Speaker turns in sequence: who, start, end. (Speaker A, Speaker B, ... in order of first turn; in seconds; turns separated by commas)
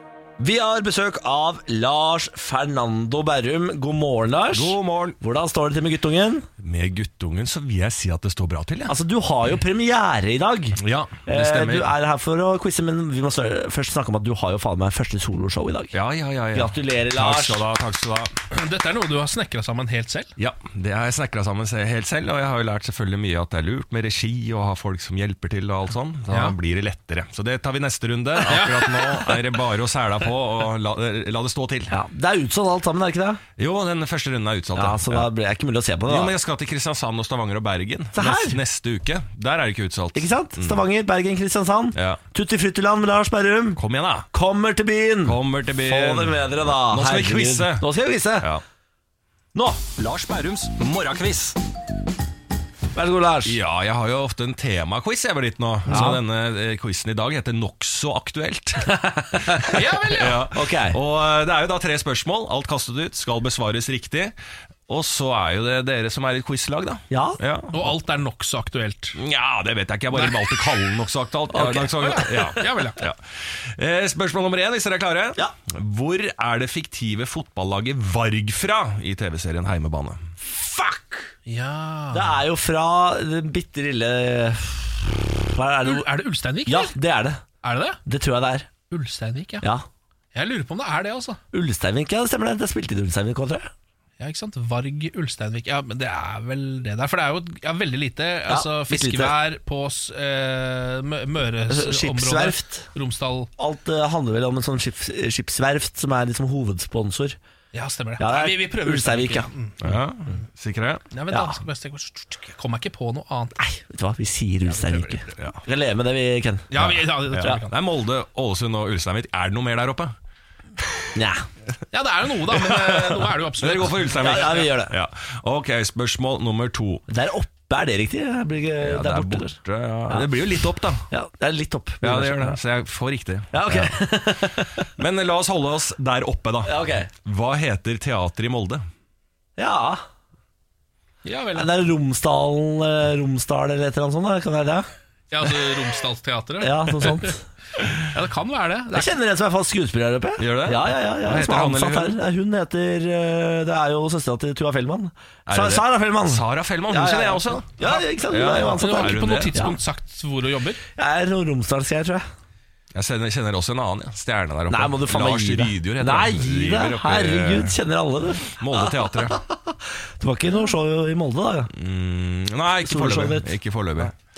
Speaker A: 0.4-6.5, Speaker B: 4.5-5.2, Speaker B: 6.6-8.9, Speaker A: 8.9-15.9, Speaker B: 10.8-11.9, Speaker B: 15.9-18.3, Speaker A: 16.5-17.6, Speaker C: 18.5-20.3, Speaker B: 20.4-31.9, Speaker C: 26.3-26.6, Speaker C: 28.4-29.4, Speaker A: 31.9-33.4, Speaker B: 33.6-35.3, Speaker A: 34.8-36.4, Speaker B: 36.1-40.8, Speaker A: 38.1-38.6, Speaker A: 40.1-43.8, Speaker B: 42.0-42.2, Speaker B: 43.8-44.3, Speaker A: 44.3-48.5, Speaker B: 45.2-47.9, Speaker B: 49.6-51.6, Speaker A: 53.0-53.6, Speaker B: 53.5-59.0, Speaker C: 55.9-56.2, Speaker A: 55.9-56.2, Speaker A: 59.0-59.9, Speaker C: 59.7-60.5, Speaker B: 60.1-64.3, Speaker A: 60.5-61.0, Speaker B: 64.9-67.9, Speaker A: 67.1-67.4, Speaker C: 67.7-69.2, Speaker B: 69.2-80.2, Speaker C: 70.1-70.6, Speaker A: 71.5-72.6, Speaker C: 71.7-73.0, Speaker A: 80.4-81.3, Speaker C: 81.5-82.4, Speaker A: 82.1-86.1, Speaker C: 85.8-87.0, Speaker A: 86.7-87.4, Speaker C: 87.6-88.0, Speaker A: 88.1-88.7, Speaker C: 88.9-89.7, Speaker A: 89.6-89.9, Speaker C: 90.3-91.4, Speaker A: 91.5-93.7, Speaker C: 94.2-103.5, Speaker A: 98.5-99.4, Speaker A: 101.7-102.9, Speaker A: 103.6-107.4, Speaker C: 107.7-109.8, Speaker A: 108.2-109.5, Speaker B: 109.8-111.1, Speaker C: 111.1-113.6, Speaker A: 111.3-111.6, Speaker A: 113.6-116.7, Speaker C: 114.7-115.3, Speaker C: 116.7-117.8, Speaker B: 116.8-120.2, Speaker A: 121.1-121.5, Speaker C: 121.9-124.7, Speaker B: 123.6-127.0, Speaker A: 124.2-125.0, Speaker A: 127.1-129.6, Speaker B: 128.8-131.1, Speaker A: 131.1-132.6, Speaker B: 132.0-134.0, Speaker A: 133.5-134.9, Speaker B: 135.0-138.8, Speaker A: 136.7-137.1, Speaker A: 139.6-140.0, Speaker C: 141.2-141.7, Speaker A: 141.6-144.9, Speaker C: 145.3-147.3, Speaker A: 146.6-147.4, Speaker C: 148.0-149.1, Speaker A: 148.9-159.8, Speaker B: 150.4-152.2, Speaker B: 155.5-159.6, Speaker C: 158.5-160.8, Speaker A: 161.0-162.2, Speaker B: 162.9-167.8, Speaker A: 164.7-171.7, Speaker B: 168.5-169.4, Speaker B: 171.7-174.1, Speaker A: 172.8-174.1